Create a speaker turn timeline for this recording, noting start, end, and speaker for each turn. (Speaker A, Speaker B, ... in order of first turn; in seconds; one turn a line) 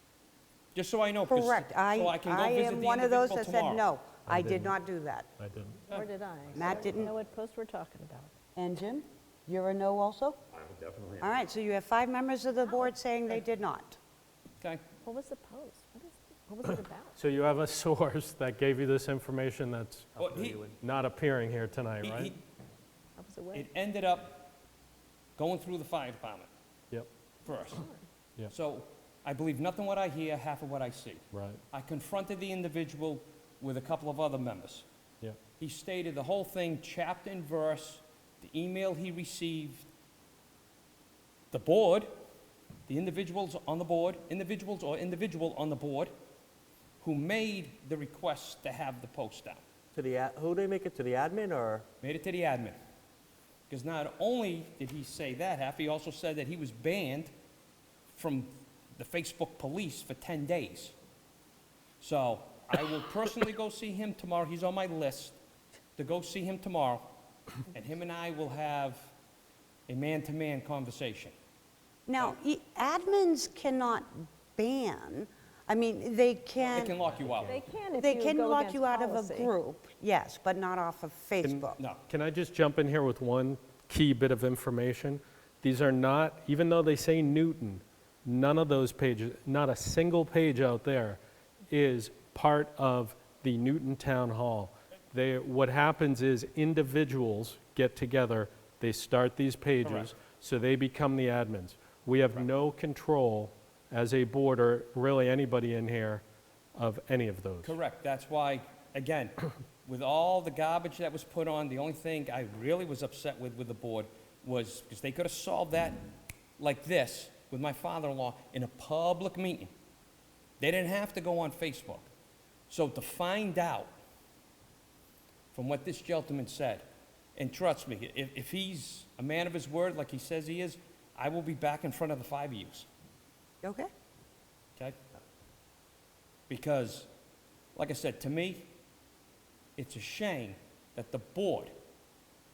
Speaker A: 0.7-3.9
Speaker B: 1.3-5.3
Speaker C: 4.3-4.7
Speaker C: 5.4-5.8
Speaker D: 5.9-8.3
Speaker B: 6.5-7.1
Speaker B: 8.6-10.4
Speaker B: 11.2-14.0
Speaker D: 15.0-17.1
Speaker C: 17.1-22.3
Speaker A: 20.2-20.7
Speaker A: 22.0-22.4
Speaker D: 23.2-23.6
Speaker A: 23.5-24.5
Speaker A: 25.4-26.5
Speaker A: 27.4-27.8
Speaker D: 27.7-28.0
Speaker A: 28.5-34.8
Speaker C: 31.3-31.6
Speaker A: 35.6-39.9
Speaker A: 41.5-42.1
Speaker A: 42.9-46.1
Speaker A: 47.0-49.6
Speaker E: 49.9-51.9
Speaker A: 52.0-52.8
Speaker A: 53.7-57.3
Speaker A: 58.1-60.9
Speaker A: 62.0-65.4
Speaker A: 66.0-67.1
Speaker A: 67.7-69.1
Speaker A: 69.9-71.3
Speaker B: 72.1-77.0
Speaker A: 76.7-77.6
Speaker D: 77.4-79.5
Speaker B: 77.9-81.8
Speaker C: 81.4-106.2
Speaker A: 99.8-100.1
Speaker C: 106.7-107.8
Speaker A: 107.6-116.0
Speaker A: 116.6-119.7
Speaker A: 120.6-122.1
Speaker A: 122.7-123.9
Speaker A: 125.5-126.8
Speaker A: 127.3-132.9
Speaker B: 133.6-133.9
Speaker A: 136.5-137.1
Speaker A: 137.7-138.7
Speaker A: 139.8-141.7